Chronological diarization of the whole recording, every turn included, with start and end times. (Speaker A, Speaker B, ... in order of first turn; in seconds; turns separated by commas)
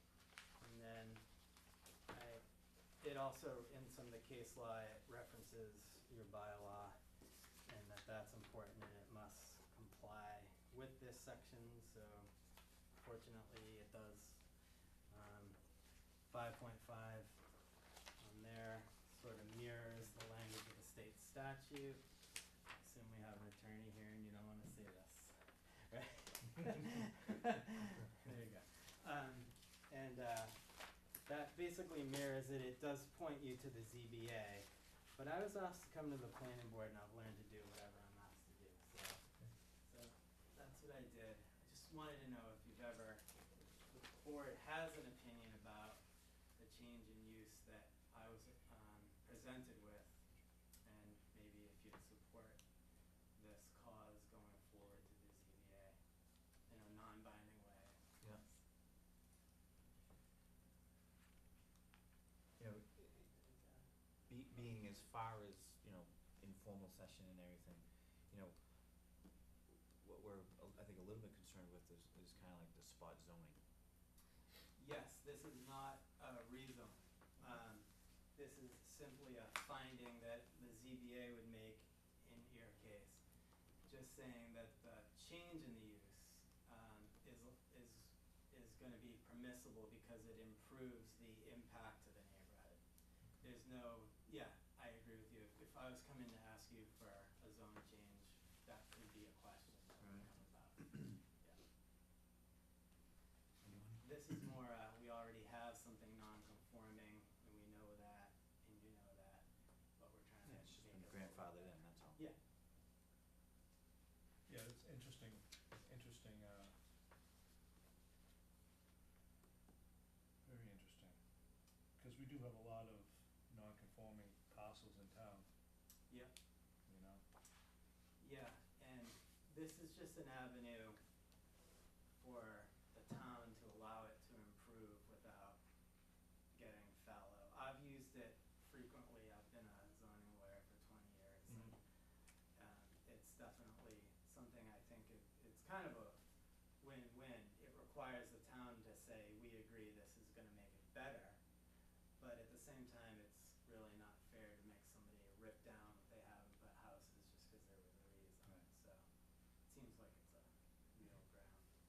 Speaker A: 0.6-1.2, Speaker A: 2.1-2.4, Speaker A: 3.0-7.0, Speaker A: 7.7-12.3, Speaker A: 12.9-17.5, Speaker A: 18.2-22.1, Speaker A: 22.7-46.0, Speaker A: 46.5-52.8, Speaker A: 53.3-56.0, Speaker A: 56.6-58.6, Speaker B: 62.6-63.3, Speaker A: 63.2-63.9, Speaker B: 64.3-69.3, Speaker B: 70.0-73.6, Speaker A: 74.8-83.3, Speaker A: 83.8-92.8, Speaker A: 93.4-101.6, Speaker B: 100.0-100.3, Speaker B: 103.6-104.5, Speaker A: 104.0-112.4, Speaker B: 110.4-112.2, Speaker C: 114.5-116.7, Speaker C: 120.4-121.2, Speaker C: 122.0-125.5, Speaker A: 126.1-126.3, Speaker C: 126.9-127.2, Speaker A: 128.2-131.0, Speaker A: 132.2-135.6, Speaker A: 136.5-141.9, Speaker C: 141.5-141.7, Speaker A: 142.5-146.2, Speaker A: 146.8-151.4, Speaker A: 152.2-159.1, Speaker A: 159.6-161.7